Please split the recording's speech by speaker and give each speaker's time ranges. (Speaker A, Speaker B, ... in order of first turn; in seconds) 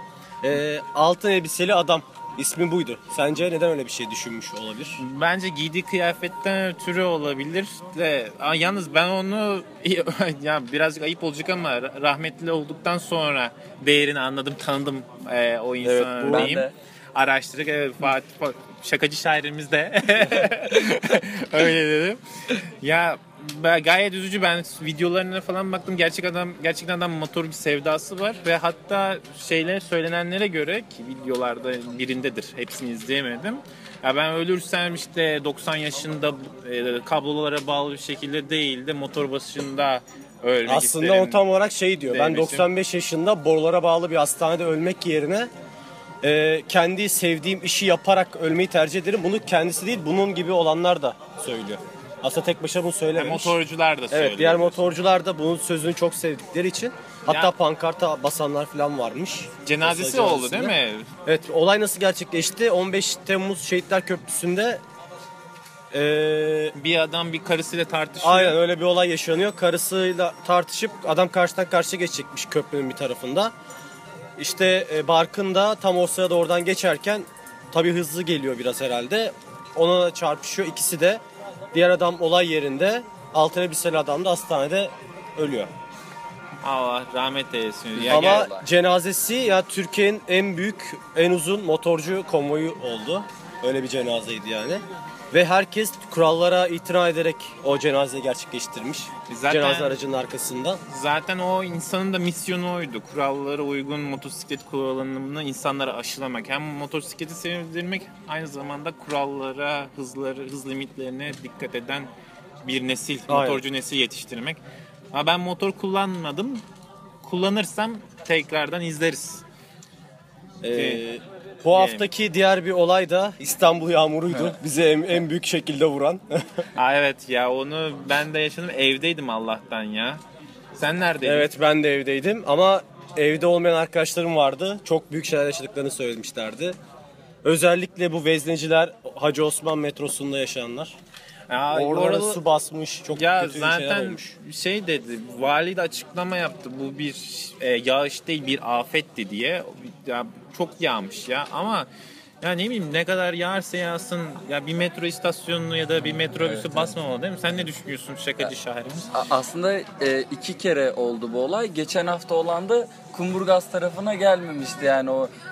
Speaker A: 0.4-5.0, 16.2-16.5, 40.6-45.5, 46.2-53.6, 54.1-64.8, 65.9-66.7, 68.2-73.5, 74.4-81.2, 81.7-85.7, 88.1-100.8, 113.3-113.6, 120.6-126.7, 131.2-136.8, 137.4-141.0, 141.7-144.3
Speaker B: 5.0-41.5, 42.1-42.7, 53.2-54.9, 57.3-57.5, 59.6-61.1, 66.7-68.6, 86.6-88.5, 99.3-100.0, 100.9-112.1, 112.6-114.6, 115.1-116.6, 117.2-119.4, 120.7-121.0, 121.7-122.0, 126.7-130.2, 130.8-131.5, 141.5-142.4, 143.1-151.9, 152.4-159.1
Speaker C: 15.8-16.7, 88.0-88.7, 156.4-156.8, 159.1-165.3